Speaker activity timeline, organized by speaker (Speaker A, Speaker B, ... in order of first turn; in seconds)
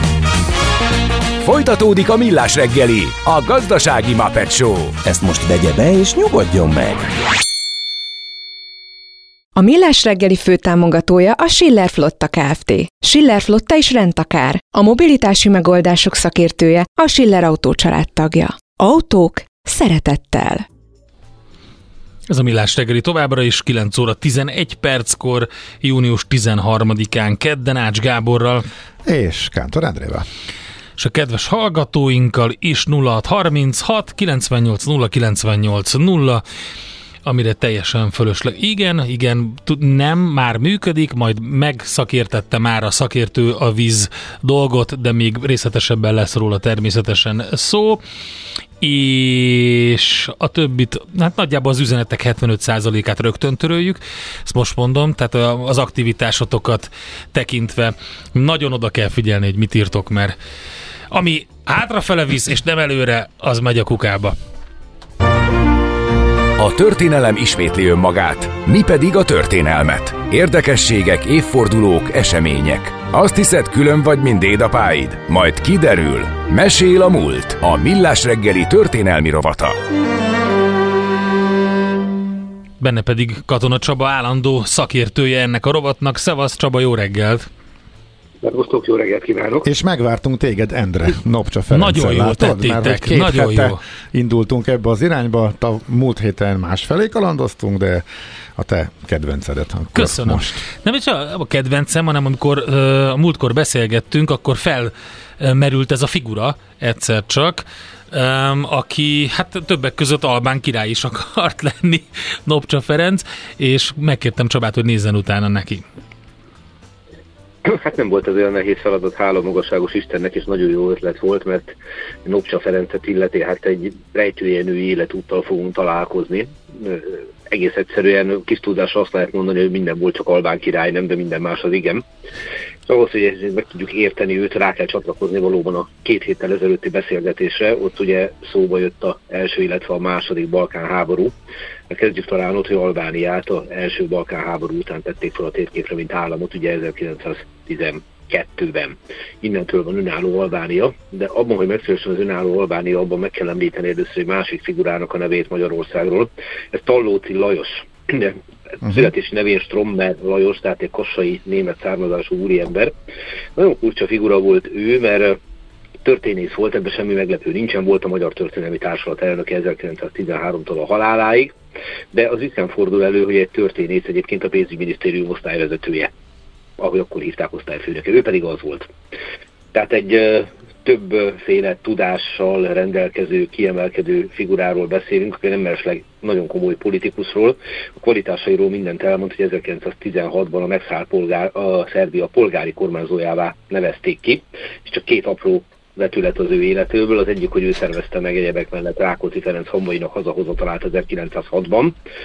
Speaker A: 1.4-5.0, 66.6-79.8
Speaker B: 5.0-7.2
Speaker C: 9.6-20.7
Speaker D: 22.3-28.6, 31.0-36.4, 37.2-48.0, 48.8-60.4, 61.1-64.3, 82.8-87.5, 91.7-93.8, 100.0-115.8
Speaker E: 29.1-30.2, 89.6-98.0, 98.6-100.6
Speaker F: 88.4-89.7, 117.7-132.0, 132.9-141.3, 141.9-162.9, 163.6-165.4, 166.0-171.6, 172.1-176.1, 176.8-178.9, 179.7-202.0